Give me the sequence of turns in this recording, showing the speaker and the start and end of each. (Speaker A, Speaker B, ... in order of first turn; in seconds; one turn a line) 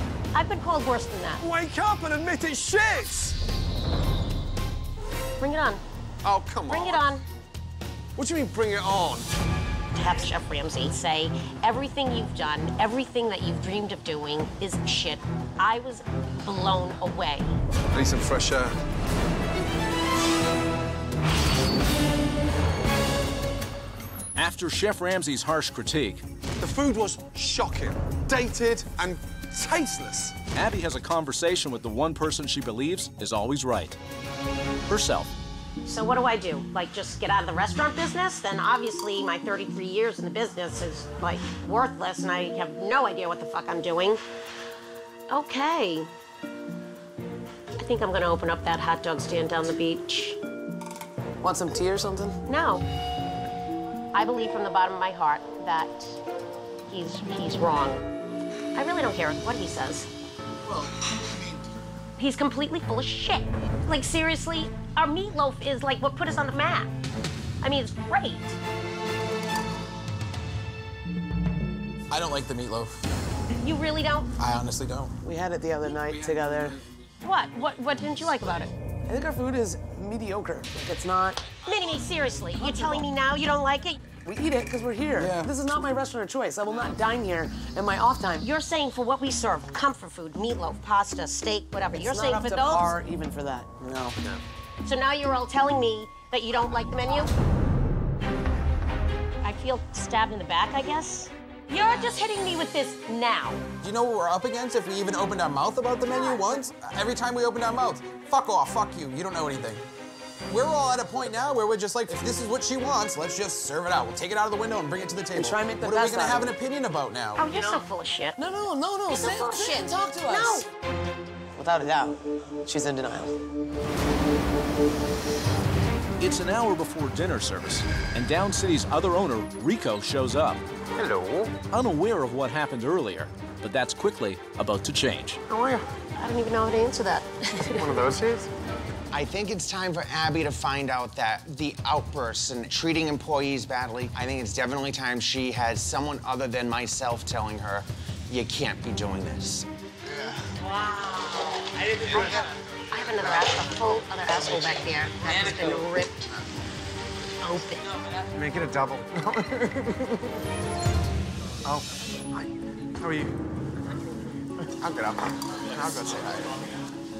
Speaker A: 0.3-1.4
Speaker B: 1.4-3.4
Speaker A: 5.4-5.8
Speaker B: 6.2-7.0
Speaker A: 6.7-7.2
Speaker B: 8.2-9.3
Speaker A: 9.9-17.5
Speaker B: 17.9-18.8
Speaker C: 24.4-26.2
Speaker B: 26.6-30.3
Speaker C: 30.5-34.0
Speaker C: 34.9-35.3
Speaker A: 35.9-44.2
Speaker A: 45.3-46.1
Speaker A: 47.8-50.4
Speaker D: 51.4-52.4
Speaker A: 52.5-52.8
Speaker A: 54.1-56.2
Speaker A: 56.9-58.0
Speaker A: 58.7-60.1
Speaker A: 62.2-66.9
Speaker A: 67.6-68.5
Speaker E: 72.1-73.0
Speaker A: 73.6-74.3
Speaker E: 74.4-75.1
Speaker D: 75.2-76.8
Speaker A: 77.2-78.7
Speaker D: 79.1-81.5
Speaker A: 81.6-84.0
Speaker D: 82.6-83.1
Speaker D: 84.2-88.5
Speaker E: 85.2-85.5
Speaker A: 88.4-92.9
Speaker D: 91.9-93.9
Speaker A: 94.8-97.3
Speaker A: 99.4-103.6
Speaker E: 103.8-109.8
Speaker E: 110.5-117.5
Speaker D: 115.3-116.5
Speaker A: 117.3-118.3
Speaker D: 118.4-120.6
Speaker A: 119.1-120.7
Speaker D: 121.5-123.3
Speaker C: 126.2-130.6
Speaker F: 130.9-131.5
Speaker C: 131.7-135.4
Speaker D: 135.5-135.8
Speaker A: 136.2-137.9
Speaker F: 139.1-149.7
Speaker A: 152.1-156.3
Speaker A: 157.4-157.8
Speaker B: 158.3-159.4
Speaker B: 161.6-162.5
Speaker B: 163.0-163.3
Speaker F: 164.8-166.5